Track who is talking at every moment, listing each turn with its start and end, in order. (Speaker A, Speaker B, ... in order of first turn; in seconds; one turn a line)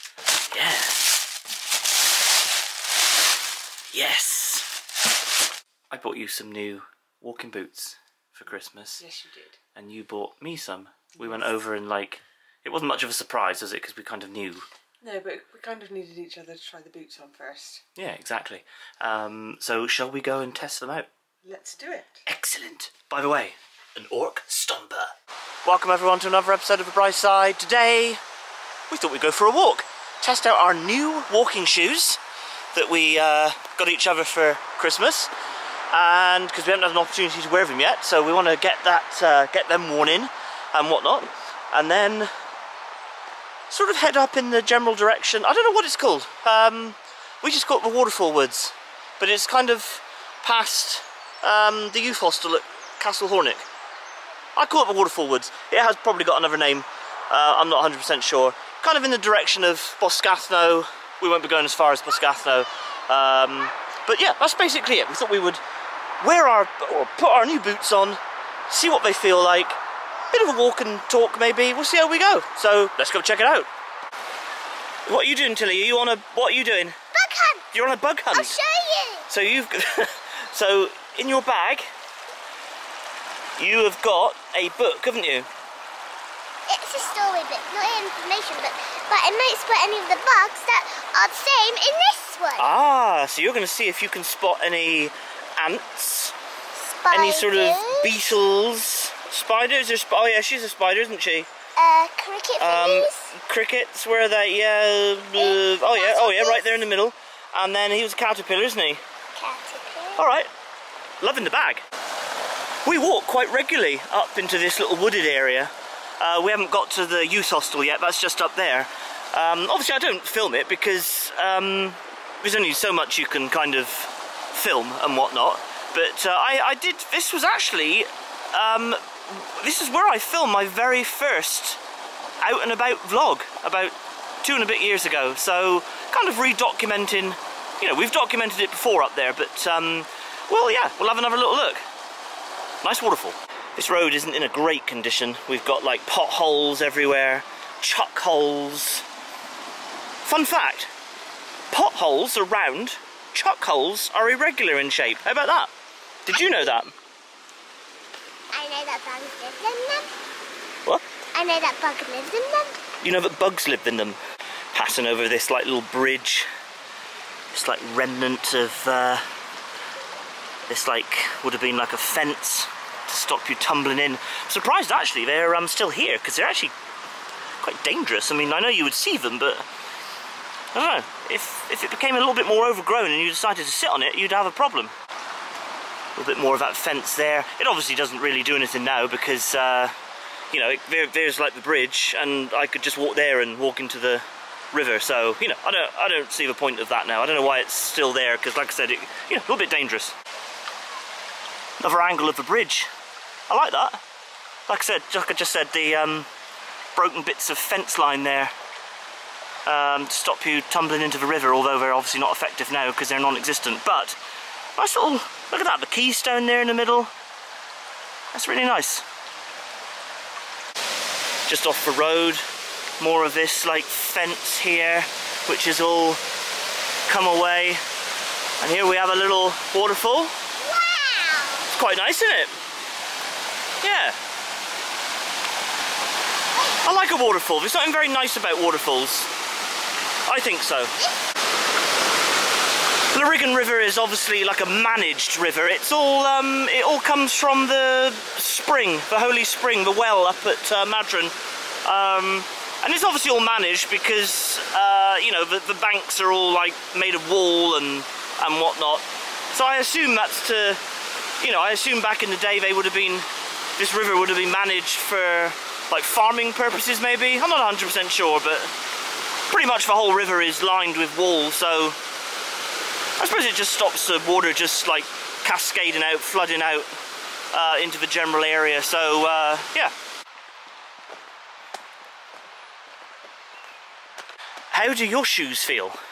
Speaker A: 0.5-1.2
Speaker A: 3.9-4.7
Speaker A: 5.9-9.0
Speaker B: 9.0-9.6
Speaker A: 9.7-14.7
Speaker B: 15.0-17.8
Speaker A: 17.9-21.1
Speaker B: 21.4-22.2
Speaker A: 22.2-25.1
Speaker A: 25.6-28.2
Speaker A: 28.9-32.2
Speaker A: 32.7-35.3
Speaker A: 35.9-42.3
Speaker A: 43.7-53.6
Speaker A: 54.5-65.6
Speaker A: 66.2-69.8
Speaker A: 70.3-73.7
Speaker A: 75.1-77.0
Speaker C: 77.1-77.7
Speaker A: 77.7-78.6
Speaker C: 78.3-79.2
Speaker A: 79.3-81.9
Speaker A: 83.6-85.5
Speaker C: 86.7-92.7
Speaker A: 92.6-96.3
Speaker C: 96.8-98.1
Speaker A: 97.1-101.5
Speaker C: 101.8-103.3
Speaker A: 102.6-109.0
Speaker C: 105.3-106.6
Speaker C: 109.3-110.2
Speaker A: 110.2-110.5
Speaker A: 111.2-111.9
Speaker A: 112.8-131.8
Speaker A: 132.4-141.8
Speaker A: 142.8-149.0
Speaker A: 150.2-150.9
Speaker A: 151.7-155.7
Speaker A: 156.2-156.9
Speaker C: 158.5-160.1
Speaker C: 161.3-162.8
Speaker A: 163.0-164.2
Speaker A: 164.7-166.5
Speaker A: 167.5-169.2
Speaker A: 170.7-176.7
Speaker A: 177.6-179.7
Speaker A: 180.7-184.9
Speaker A: 186.2-189.9
Speaker A: 190.5-200.1
Speaker A: 201.8-202.9
Speaker A: 203.5-204.0
Speaker A: 204.7-206.3
Speaker A: 206.9-208.5
Speaker A: 209.7-214.2
Speaker A: 214.8-217.1
Speaker A: 218.3-219.0
Speaker A: 221.5-222.4
Speaker A: 223.0-226.2
Speaker A: 227.1-227.8
Speaker A: 228.6-230.3
Speaker C: 230.6-231.7
Speaker A: 231.7-232.5
Speaker A: 233.8-234.2
Speaker A: 236.8-239.3
Speaker A: 240.2-240.9
Speaker A: 243.1-260.8
Speaker A: 261.4-268.7
Speaker A: 269.5-272.0
Speaker A: 273.2-276.9
Speaker A: 277.5-279.9
Speaker A: 284.7-286.0